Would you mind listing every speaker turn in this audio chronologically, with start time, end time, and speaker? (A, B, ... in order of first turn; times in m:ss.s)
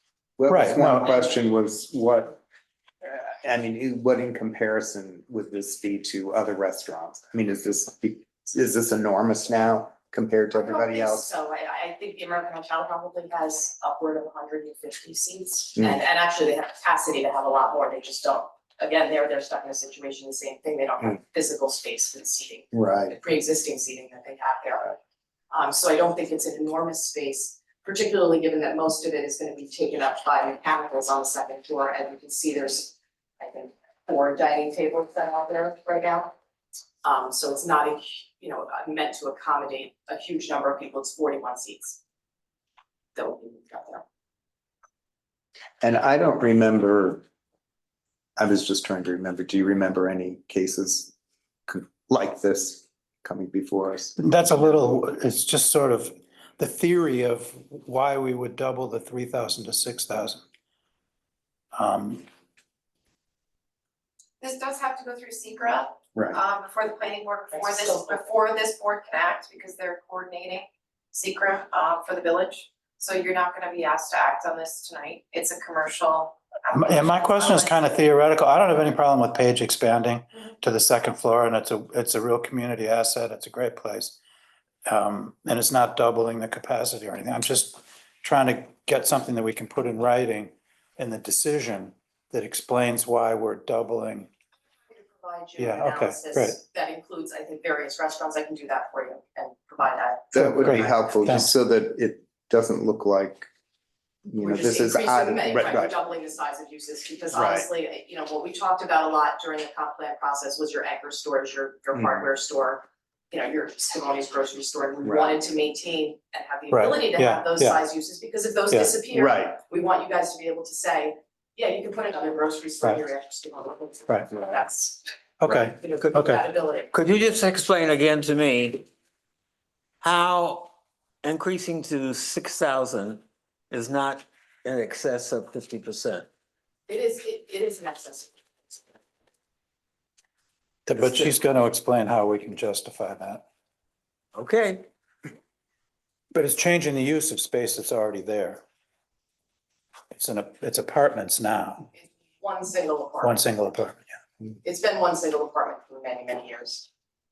0:00.4-0:02.4 A
0:00.5-0:01.2 B
0:03.0-0:11.3 A
0:10.5-0:25.0 C
0:22.7-0:23.1 A
0:25.5-0:36.3 C
0:37.0-0:42.0 C
0:43.2-0:44.0 C
0:45.8-0:47.2 A
0:48.4-0:51.1 A
0:51.7-0:54.2 A
0:54.2-1:00.4 B
1:01.7-1:02.2 B
1:04.4-1:17.8 D
1:16.7-1:24.2 B
1:24.9-1:34.3 B
1:34.9-1:40.3 C
1:35.6-1:36.6 B
1:40.3-1:43.5 A
1:40.4-1:41.5 B
1:44.2-1:45.9 A
1:44.4-2:06.9 C
1:47.3-1:47.7 A
1:55.0-1:55.3 A
1:56.7-1:57.8 B
1:59.1-1:59.6 A
2:05.4-2:06.4 B
2:06.9-2:08.9 E
2:10.0-2:10.7 E
2:11.2-2:16.3 E
2:16.9-2:18.8 C
2:20.9-2:23.4 B
2:24.3-2:24.9 E
2:26.3-2:28.6 B
2:30.2-2:31.9 B
2:32.0-2:33.4 C
2:33.2-2:34.0 B
2:34.6-2:36.9 C